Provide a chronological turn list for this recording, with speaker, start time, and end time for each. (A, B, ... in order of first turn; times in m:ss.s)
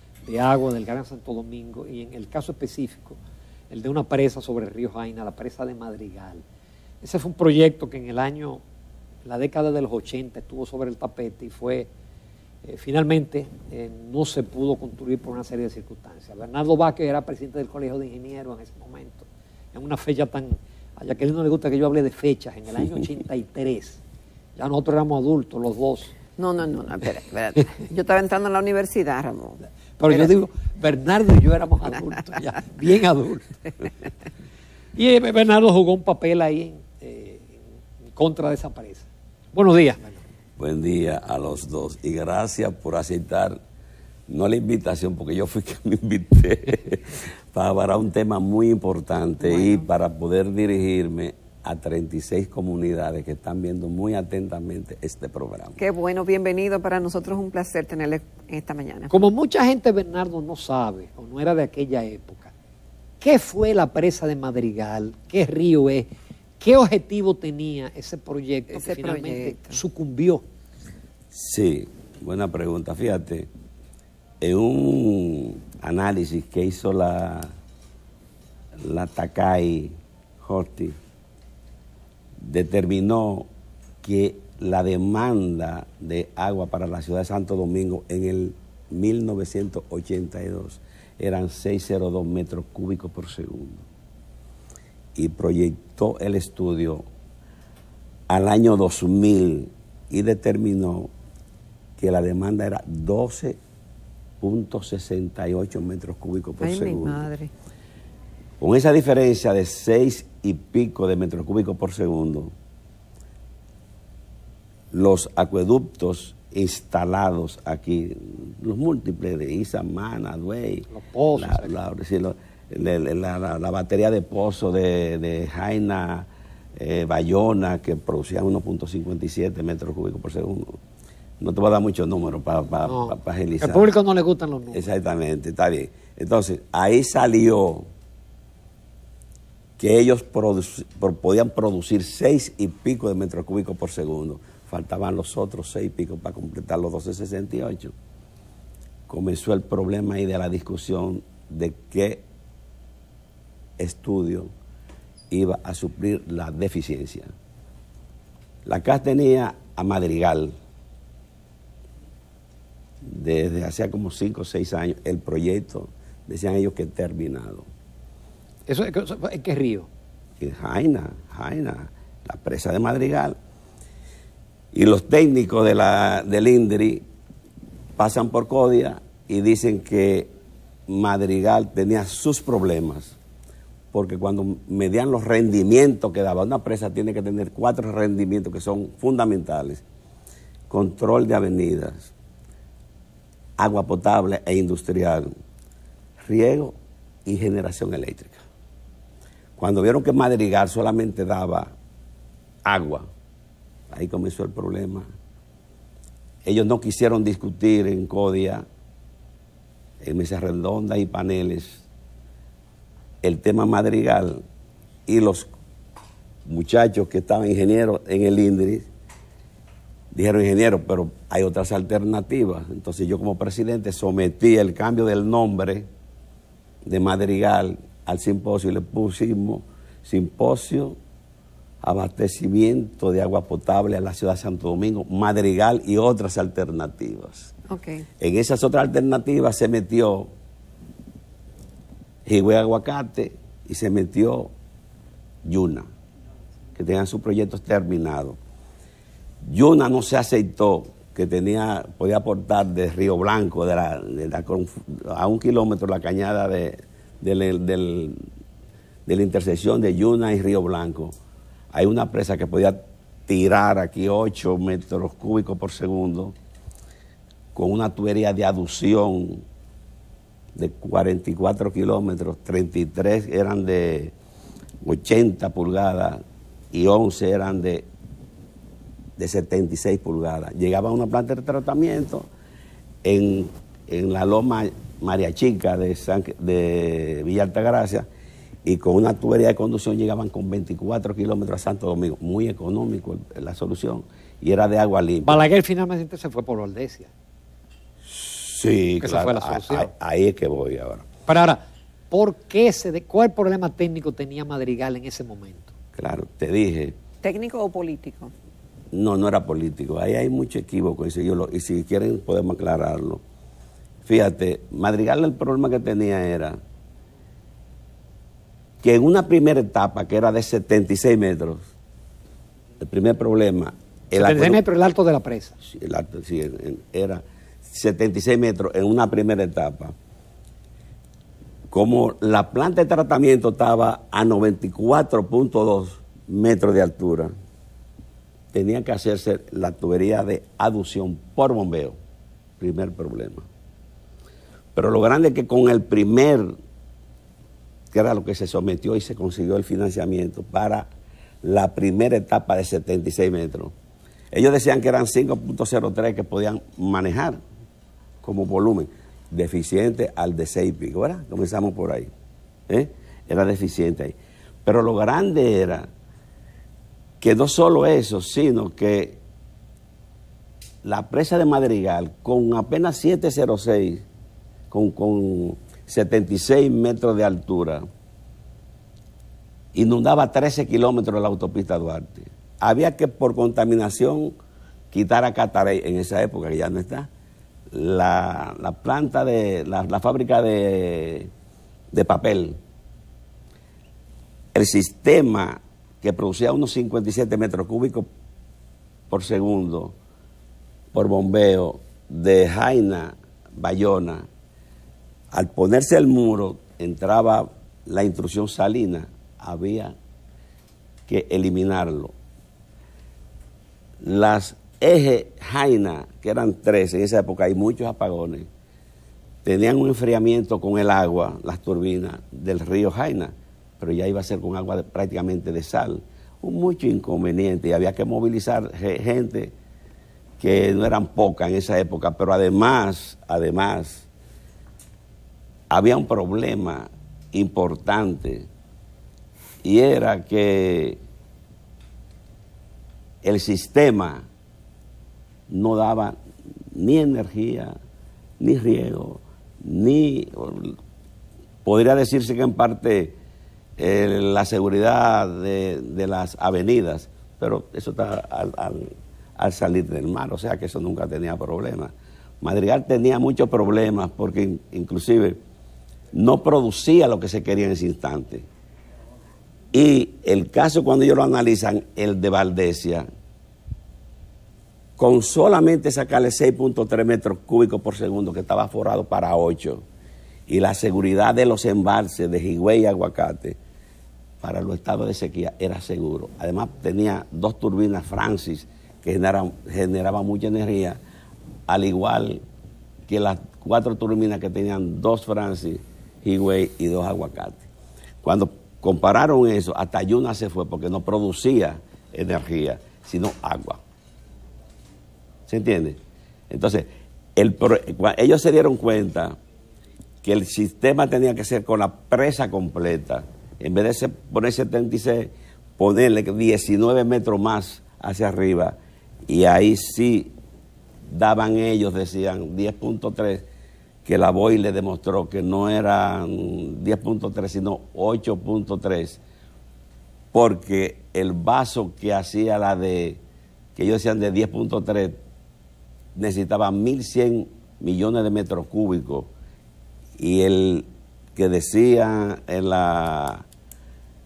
0:00.2-0:03.2 A
0:03.7-0:06.4 A
0:07.0-0:08.6 A
0:09.2-0:11.9 A
0:12.6-0:24.0 A
0:24.6-0:26.1 A
0:26.4-0:30.4 B
0:30.0-0:33.5 A
0:35.0-0:37.6 A
0:38.2-0:40.2 A
0:40.6-0:43.6 C
0:44.3-0:55.8 C
0:49.5-0:49.8 B
0:55.8-0:59.1 B
0:59.1-1:02.5 A
1:03.2-1:06.1 A
1:06.6-1:10.4 A
1:08.7-1:09.8 B
1:11.3-1:13.5 C
1:14.4-1:17.5 C
1:18.8-1:21.0 C
1:22.4-1:23.5 C
1:24.0-1:33.8 C
1:35.2-1:37.0 C
1:38.3-1:41.1 C
1:42.0-1:43.6 C
1:44.4-1:47.2 C
1:46.6-1:47.5 B
1:48.6-1:52.5 C
1:54.9-2:10.8 C
2:00.9-2:01.8 A
2:11.4-2:13.9 C
2:12.9-2:14.9 A
2:14.7-2:17.9 C
2:19.8-2:27.9 C
2:29.1-2:32.2 C
2:33.8-2:34.5 C
2:35.3-2:37.3 C
2:38.6-2:40.6 C
2:43.0-2:47.7 C
2:48.7-2:49.9 A
2:50.4-2:53.4 C
2:54.7-2:57.0 C
2:58.0-3:00.3 C
3:00.9-3:03.2 C
3:03.9-3:09.8 C
3:10.7-3:12.1 C
3:13.6-3:15.3 C
3:16.3-3:18.4 C
3:19.6-3:21.8 C
3:22.7-3:23.1 C
3:23.9-3:25.1 C
3:26.4-3:28.6 C
3:30.0-3:31.8 C
3:33.2-3:34.4 C
3:35.1-3:35.5 C
3:36.4-3:38.9 C
3:40.1-3:45.9 C
3:46.8-3:51.0 C
3:51.8-3:57.5 C
3:57.7-3:58.1 B
3:58.2-4:00.3 C
4:02.3-4:04.5 C
4:05.4-4:05.9 C
4:06.8-4:08.4 C
4:09.4-4:18.2 C
4:19.1-4:21.2 C
4:21.7-4:26.4 C
4:27.5-4:29.4 C
4:30.6-4:34.1 C
4:34.8-4:36.2 C
4:36.7-4:37.9 C
4:39.2-4:42.3 C
4:43.0-4:48.1 C
4:48.6-4:55.4 C
4:55.2-4:57.1 A
4:58.1-5:01.1 C
4:59.0-4:59.9 A
5:01.3-5:05.7 A
5:06.0-5:07.0 C
5:07.2-5:08.3 B
5:08.9-5:13.2 C
5:14.0-5:16.6 C
5:18.8-5:21.7 C
5:22.8-5:24.6 C
5:24.1-5:25.6 A
5:25.6-5:30.0 C
5:31.7-5:37.3 C
5:38.5-5:42.0 C
5:42.6-5:43.5 C
5:44.8-5:46.5 C
5:47.9-5:50.9 C
5:51.4-5:53.7 C
5:54.3-5:57.4 C
5:58.2-6:02.1 C
6:02.7-6:05.9 C
6:07.2-6:09.2 C
6:10.8-6:14.0 C
6:14.7-6:17.8 C
6:19.7-6:24.3 C
6:24.9-6:27.1 C
6:27.7-6:31.3 C
6:31.9-6:32.6 C
6:34.5-6:38.1 C
6:39.1-6:40.0 C
6:40.9-6:44.3 C
6:45.3-6:50.0 C
6:51.1-6:52.1 C
6:54.0-6:58.5 C
6:59.4-7:09.5 C
7:10.4-7:14.1 C
7:15.7-7:18.5 C
7:19.6-7:21.0 C
7:23.2-7:24.3 C
7:25.5-7:26.2 C
7:26.7-7:27.7 C
7:28.4-7:30.8 C
7:31.6-7:33.2 C
7:33.8-7:45.4 C
7:46.1-7:48.4 C
7:49.7-7:53.1 C
7:55.0-7:59.8 C
8:00.5-8:03.6 C
8:04.4-8:11.0 C
8:11.7-8:12.4 C
8:13.1-8:17.7 C
8:18.2-8:23.8 C
8:25.5-8:26.0 C
8:26.5-8:29.4 C
8:30.2-8:38.8 C
8:39.3-8:40.3 C
8:41.1-8:43.5 C
8:44.0-8:49.2 C
8:50.3-8:53.2 C
8:53.8-8:55.2 C
8:56.2-8:59.3 C
9:00.2-9:03.4 C